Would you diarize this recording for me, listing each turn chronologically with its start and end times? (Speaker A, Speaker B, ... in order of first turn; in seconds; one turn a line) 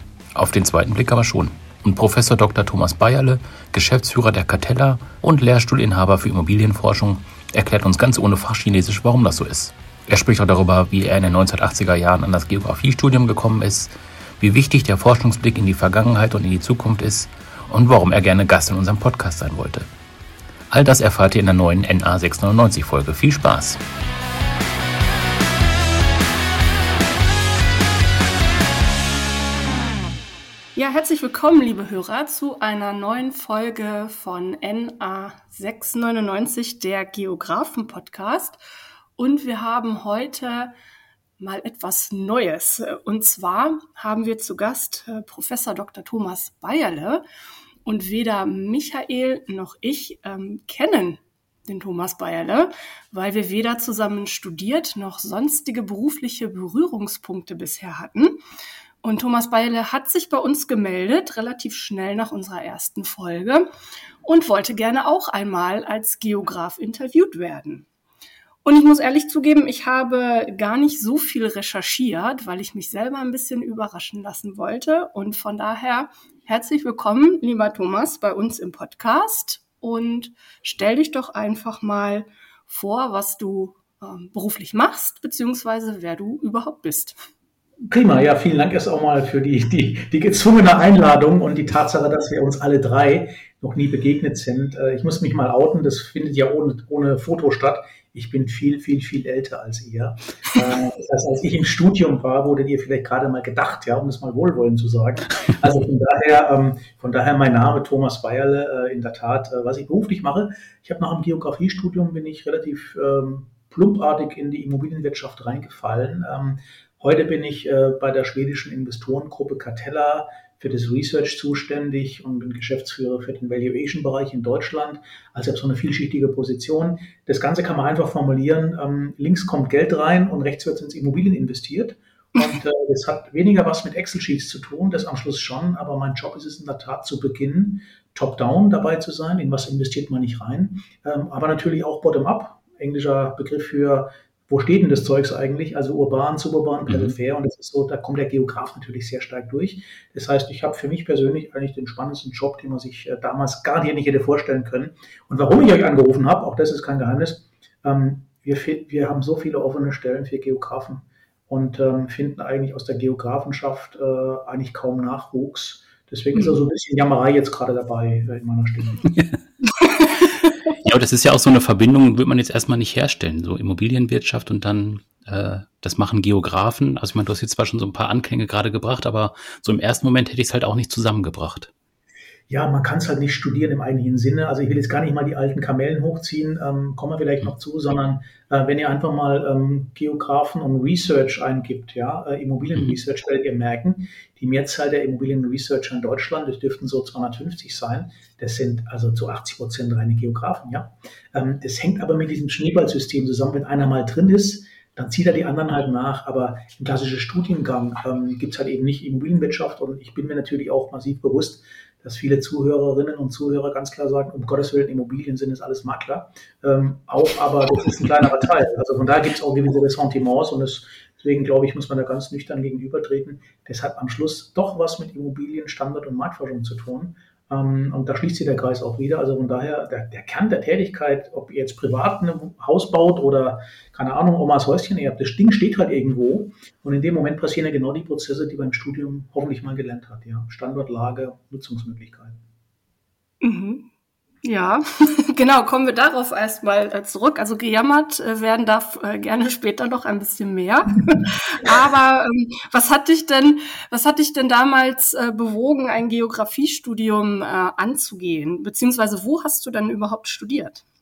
Speaker A: 0.3-19.9
Speaker A: 20.7-23.8
Speaker B: 30.8-38.6
Speaker B: 39.2-40.7
Speaker B: 41.4-47.2
Speaker B: 47.9-58.4
Speaker B: 59.0-63.7
Speaker B: 64.2-67.9
Speaker B: 68.6-87.2
Speaker C: 87.9-169.1
Speaker A: 146.9-147.1
Speaker B: 166.3-166.6
Speaker A: 169.1-169.4
Speaker B: 169.8-170.3
Speaker A: 170.8-181.7
Speaker C: 182.5-242.4
Speaker B: 243.4-243.9
Speaker B: 244.4-260.8